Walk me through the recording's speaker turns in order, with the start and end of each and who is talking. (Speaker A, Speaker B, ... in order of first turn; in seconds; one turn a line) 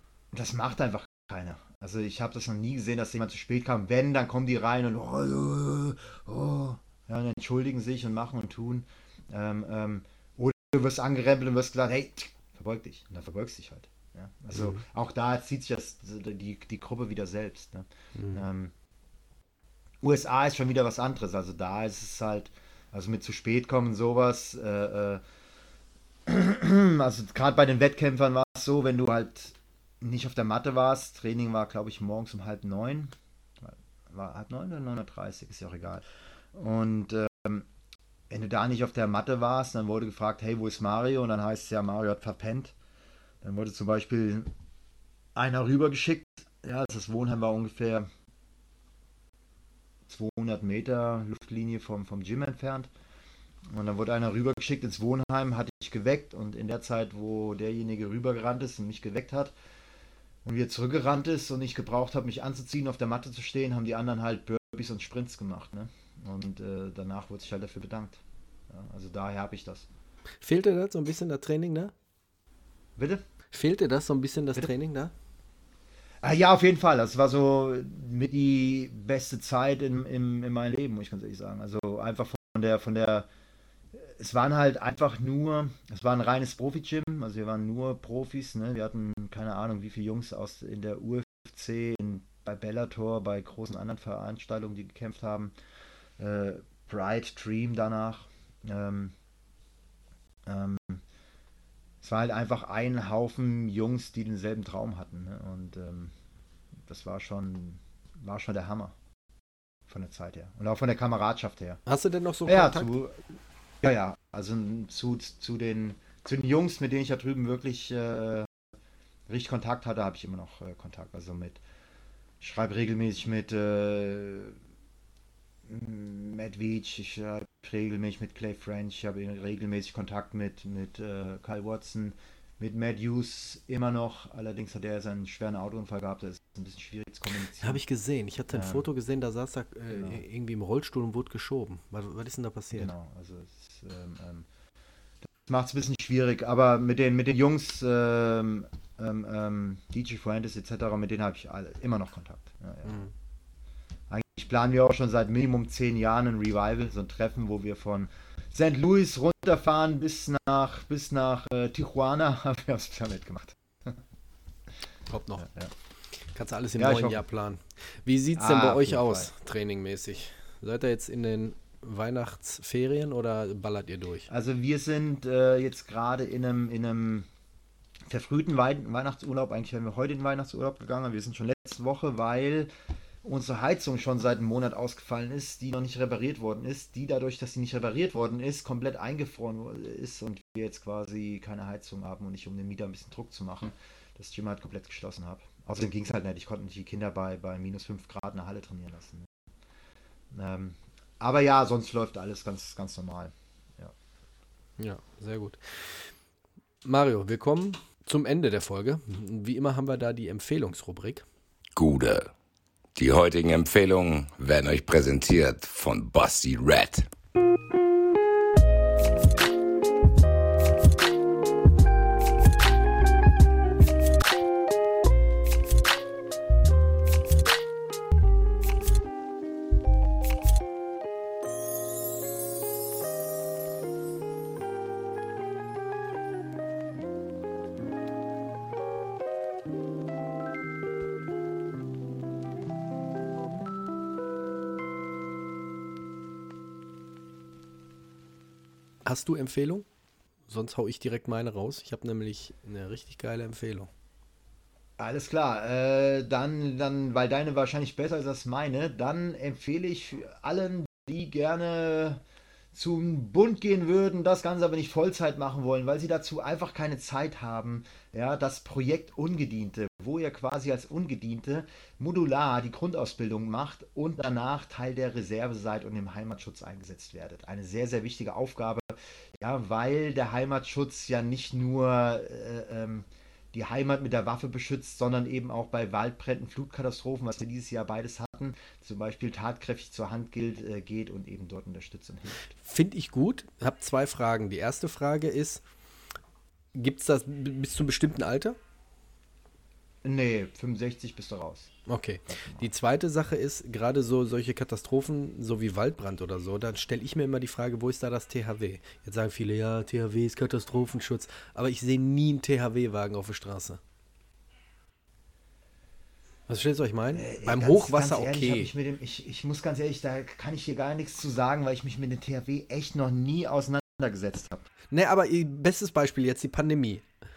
Speaker A: 0.3-18.7
Speaker B: 14.5-14.8
Speaker B: 18.2-18.4
Speaker A: 20.0-25.2
Speaker A: 26.3-36.0
Speaker A: 36.5-37.7
Speaker A: 38.3-42.8
Speaker A: 43.4-44.5
Speaker A: 45.4-48.1
Speaker A: 50.1-52.9
Speaker A: 53.7-59.5
Speaker A: 60.4-69.9
Speaker B: 70.4-71.9
Speaker A: 73.0-73.2
Speaker B: 73.5-75.1
Speaker A: 76.2-83.3
Speaker A: 83.9-95.5
Speaker A: 96.2-99.1
Speaker A: 100.5-101.0
Speaker A: 102.0-106.1
Speaker A: 106.9-109.0
Speaker A: 109.9-111.8
Speaker B: 111.9-113.0
Speaker A: 112.5-118.5
Speaker A: 119.3-121.6
Speaker A: 122.4-124.6
Speaker A: 125.7-137.8
Speaker B: 137.6-142.9
Speaker A: 138.5-138.9
Speaker A: 139.9-140.2
Speaker A: 142.7-144.5
Speaker A: 145.2-153.1
Speaker B: 152.8-153.1
Speaker A: 154.1-164.0
Speaker B: 165.1-165.5
Speaker A: 165.4-165.7
Speaker B: 166.3-174.3
Speaker A: 166.8-167.2
Speaker A: 168.4-169.3
Speaker A: 174.3-177.3
Speaker A: 178.1-182.7
Speaker A: 183.2-199.3
Speaker A: 200.3-203.9
Speaker B: 204.8-206.1
Speaker B: 206.8-211.2
Speaker C: 211.8-212.3
Speaker C: 212.9-217.1
Speaker B: 249.1-249.9
Speaker B: 250.5-253.9
Speaker A: 255.0-262.2
Speaker A: 262.7-292.5
Speaker B: 292.5-295.6
Speaker B: 296.8-298.6
Speaker A: 300.0-301.7
Speaker B: 301.9-313.8
Speaker A: 302.3-302.7
Speaker B: 316.5-318.7
Speaker A: 317.1-324.7
Speaker B: 324.9-327.0